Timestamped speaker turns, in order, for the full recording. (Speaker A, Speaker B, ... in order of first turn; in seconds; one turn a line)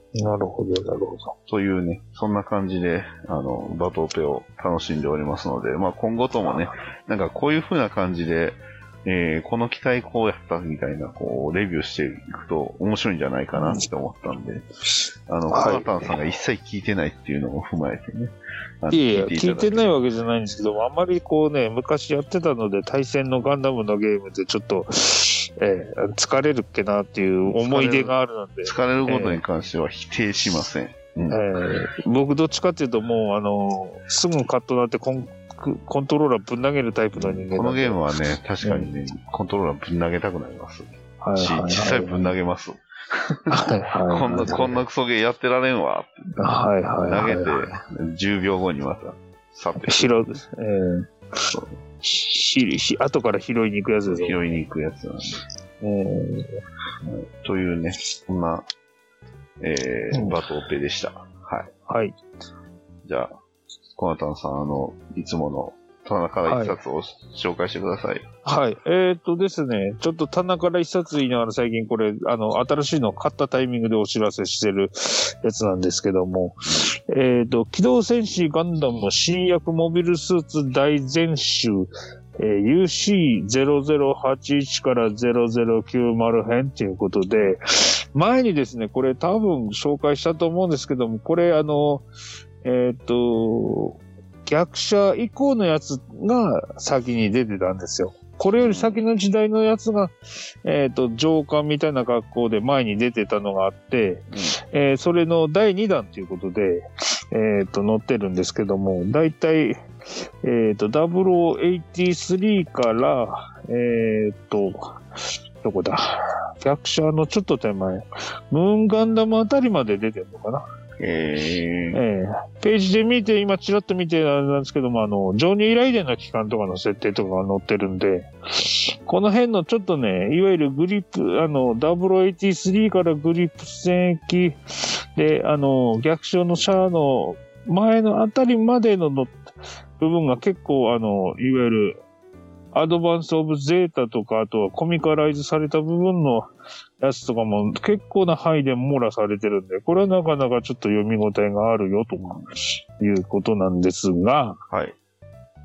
Speaker A: 0.1-1.3
Speaker B: 1.5-14.7
Speaker A: 13.5-13.8
Speaker B: 15.3-19.9
Speaker A: 15.5-15.9
Speaker A: 18.9-29.4
Speaker B: 27.4-31.4
Speaker A: 31.3-38.0
Speaker B: 37.1-46.3
Speaker A: 38.6-38.9
Speaker A: 41.2-42.3
Speaker A: 43.5-44.8
Speaker A: 46.4-47.5
Speaker B: 47.1-50.1
Speaker A: 49.8-51.1
Speaker A: 52.0-54.4
Speaker B: 54.0-55.4
Speaker A: 55.8-56.6
Speaker B: 57.0-58.6
Speaker B: 59.6-61.7
Speaker A: 60.1-60.4
Speaker A: 61.9-62.1
Speaker B: 63.0-63.3
Speaker B: 64.0-68.3
Speaker A: 66.5-66.8
Speaker A: 68.5-92.0
Speaker A: 92.6-115.0
Speaker B: 98.5-99.0
Speaker A: 115.6-120.6
Speaker B: 121.0-122.0
Speaker A: 121.9-139.4
Speaker A: 140.0-142.0
Speaker A: 142.7-146.5
Speaker A: 147.0-154.6
Speaker B: 152.2-152.5
Speaker B: 154.7-154.9